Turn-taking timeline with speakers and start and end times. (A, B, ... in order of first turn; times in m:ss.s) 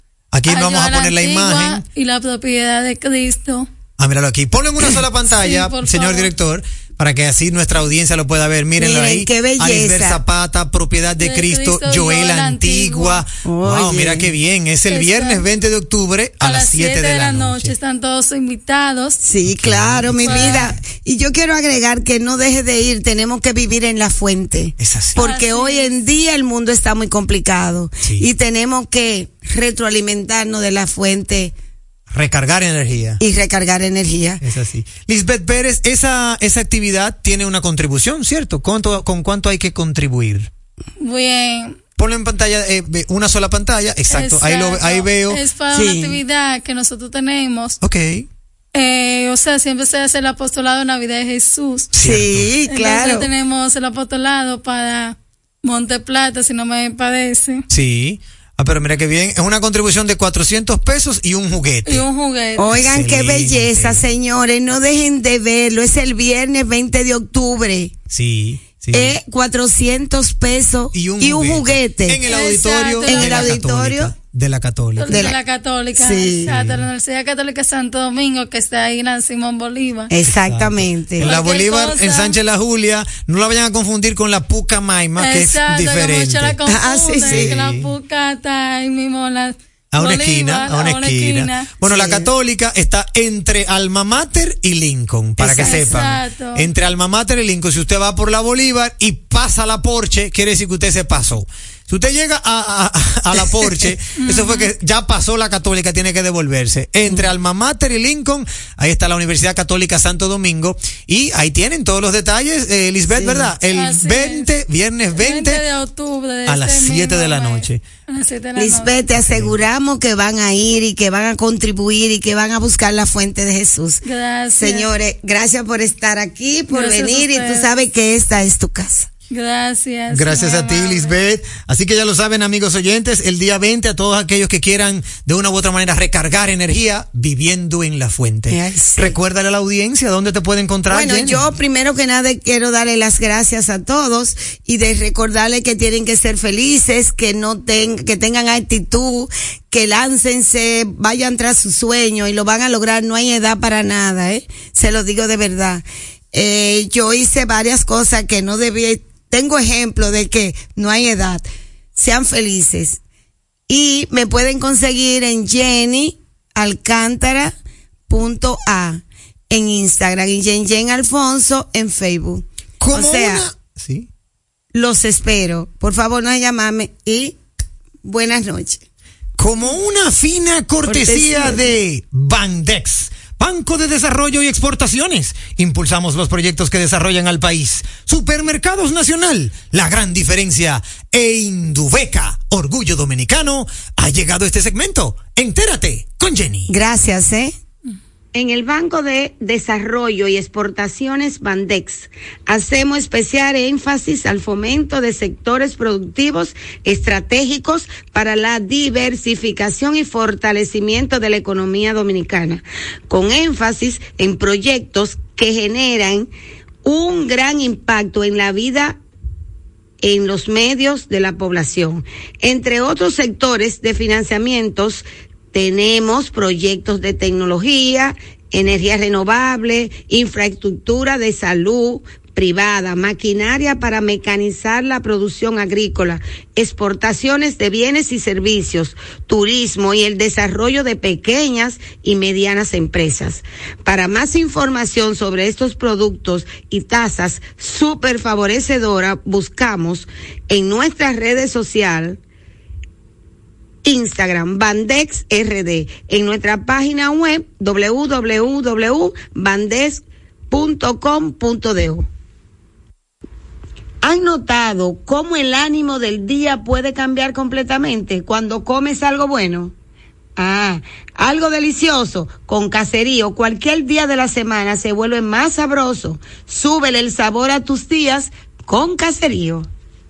0:00.3-0:01.8 A
0:00.4-0:03.7 B
0:04.0-0:17.7 A
0:05.2-0:06.3 B
0:08.8-0:10.2 C
0:11.2-0:13.2 B
0:13.4-0:14.3 C
0:14.9-0:15.5 B
0:16.4-0:19.2 B
0:19.2-0:31.5 C
0:19.4-0:20.8 A
0:20.2-0:20.6 B
0:24.8-0:25.2 A
0:25.2-0:26.0 B
0:28.0-0:28.3 A
0:32.1-0:33.2 A
0:33.2-0:34.4 C
0:34.4-0:40.5 A
0:41.0-0:41.8 B
0:42.0-0:45.4 A
0:44.1-0:47.8 B
0:45.7-0:46.2 C
0:47.8-0:48.3 A
0:48.7-0:51.9 B
0:51.9-0:52.5 A
0:51.9-0:53.3 C
0:52.7-0:57.6 B
0:57.7-1:02.0 A
1:01.8-1:02.7 B
1:02.6-1:08.0 C
1:02.7-1:04.0 A
1:08.1-1:09.2 A
1:08.9-1:12.2 C
1:10.9-1:15.2 A
1:12.2-1:13.6 B
1:13.0-1:14.1 C
1:15.0-1:20.1 B
1:15.1-1:15.4 C
1:15.9-1:16.5 C
1:16.4-1:16.9 A
1:20.1-1:21.4 C
1:20.2-1:26.6 A
1:21.2-1:22.4 B
1:25.2-1:31.7 B
1:26.6-1:27.6 C
1:27.2-1:27.9 A
1:29.9-1:55.6 A
1:31.8-1:32.3 C
1:35.4-1:35.9 C
1:35.4-1:36.7 B
1:44.2-1:44.7 B
1:53.0-1:53.5 C
1:53.6-1:54.5 B
1:55.1-1:59.0 B
1:56.5-1:57.8 A
1:58.6-2:04.0 C
1:59.1-1:59.6 A
2:04.0-2:04.9 B
2:04.6-2:09.1 C
2:06.7-2:07.6 B
2:09.3-2:11.1 B
2:10.1-2:21.4 A
2:18.5-2:19.2 C
2:20.9-2:43.0 C
2:43.7-2:47.5 C
2:48.1-2:53.5 C
2:52.8-2:54.1 A
2:54.7-2:57.4 C
2:58.0-2:58.8 C
2:59.4-3:16.7 A
3:00.8-3:01.8 C
3:16.7-3:17.5 C
3:18.3-3:36.3 C
3:36.8-3:39.0 C
3:40.0-4:12.2 C
4:13.8-4:22.0 C
4:24.0-4:29.7 C
4:30.4-4:39.7 C